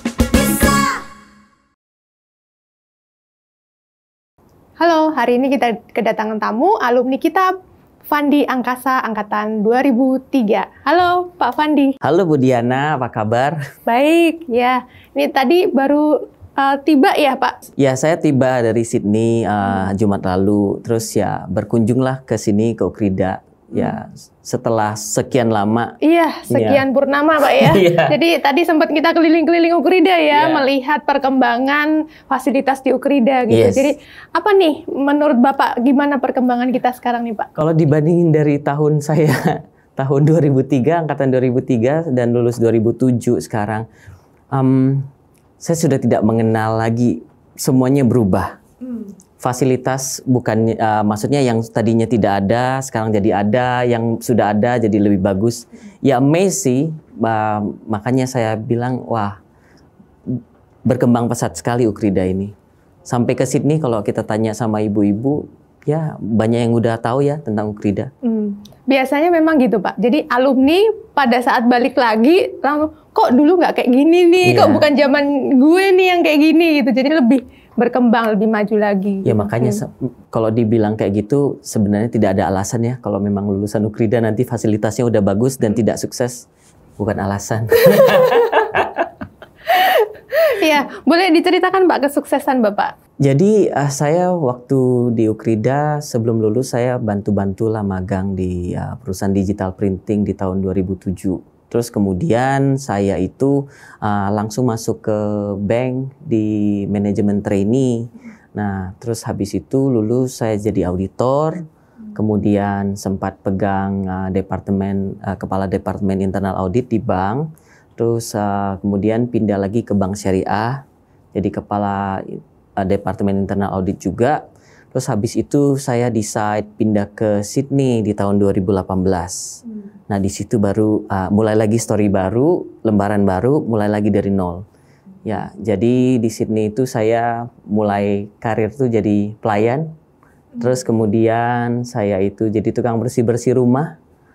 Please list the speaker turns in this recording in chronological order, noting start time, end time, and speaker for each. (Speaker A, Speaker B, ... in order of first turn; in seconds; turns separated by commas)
Speaker A: 4.8-7.5, Speaker A: 8.1-11.9, Speaker B: 12.0-13.6, Speaker A: 13.9-17.5, Speaker B: 17.8-25.9, Speaker A: 26.0-37.5, Speaker B: 26.5-26.8, Speaker B: 27.5-28.1, Speaker B: 30.3-30.6, Speaker B: 33.5-33.9, Speaker B: 37.5-43.8, Speaker B: 44.5-45.1, Speaker B: 45.6-48.6, Speaker B: 49.4-59.4, Speaker B: 60.3-62.5, Speaker B: 63.0-68.1, Speaker A: 68.2-79.8, Speaker B: 74.4-74.9, Speaker B: 79.2-86.5, Speaker B: 87.0-89.0, Speaker A: 89.8-92.9, Speaker B: 93.2-111.6, Speaker B: 112.1-124.4, Speaker B: 124.9-134.6, Speaker B: 135.2-139.9, Speaker B: 140.6-143.9